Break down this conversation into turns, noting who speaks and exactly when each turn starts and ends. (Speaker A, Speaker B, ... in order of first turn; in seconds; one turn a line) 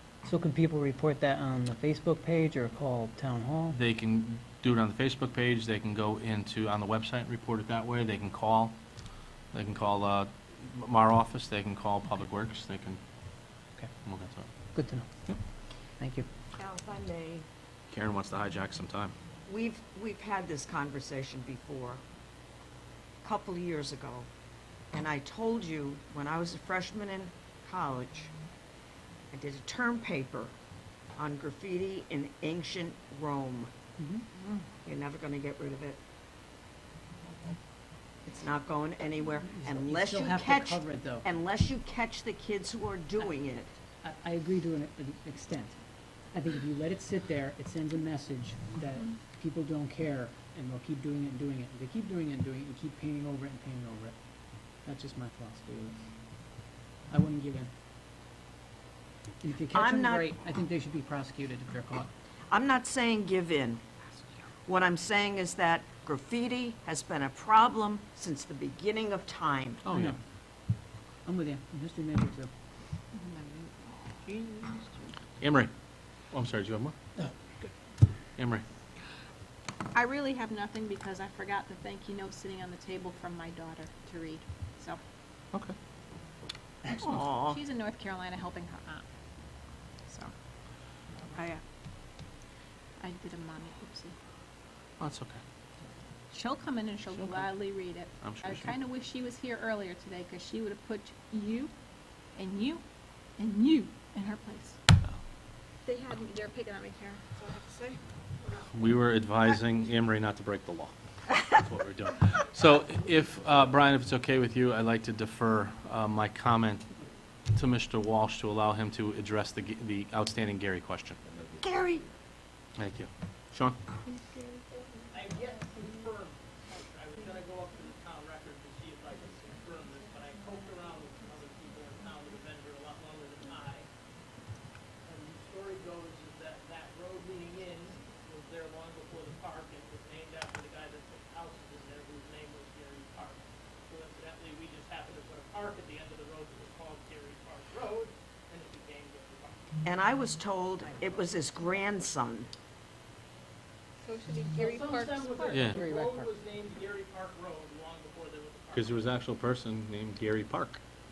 Speaker A: 0.2-3.8
Speaker B: 3.7-8.8
Speaker B: 9.5-13.0
Speaker B: 14.1-14.5
Speaker A: 14.7-15.1
Speaker A: 16.0-16.3
Speaker C: 16.6-17.5
Speaker B: 17.9-19.1
Speaker C: 19.5-22.0
Speaker C: 23.2-24.3
Speaker C: 24.9-28.3
Speaker C: 29.3-30.5
Speaker C: 31.2-33.7
Speaker A: 34.0-34.2
Speaker C: 34.9-36.0
Speaker C: 38.3-43.7
Speaker A: 39.5-41.3
Speaker A: 44.0-45.8
Speaker A: 46.3-54.1
Speaker A: 54.9-56.0
Speaker A: 57.1-57.7
Speaker A: 59.4-62.1
Speaker C: 59.7-60.3
Speaker C: 62.5-63.8
Speaker C: 64.7-69.9
Speaker B: 69.8-70.2
Speaker A: 69.9-70.2
Speaker A: 71.3-72.5
Speaker D: 73.2-73.7
Speaker D: 74.3-74.8
Speaker B: 75.4-75.7
Speaker B: 76.3-77.0
Speaker B: 78.4-78.7
Speaker D: 79.9-85.0
Speaker C: 87.0-87.6
Speaker D: 87.2-89.0
Speaker D: 91.4-91.6
Speaker D: 93.0-94.2
Speaker B: 95.0-95.4
Speaker D: 96.3-101.7
Speaker B: 97.1-97.6
Speaker B: 98.1-98.8
Speaker D: 102.4-102.8
Speaker D: 103.4-104.8
Speaker D: 105.9-108.0
Speaker B: 108.7-116.9
Speaker B: 117.5-121.2
Speaker C: 121.6-122.0
Speaker B: 122.8-123.8
Speaker E: 125.1-133.9
Speaker E: 135.1-149.7
Speaker C: 149.8-152.5
Speaker D: 154.0-155.7
Speaker E: 154.5-159.1
Speaker B: 155.5-155.8
Speaker A: 155.7-156.3
Speaker B: 158.7-160.8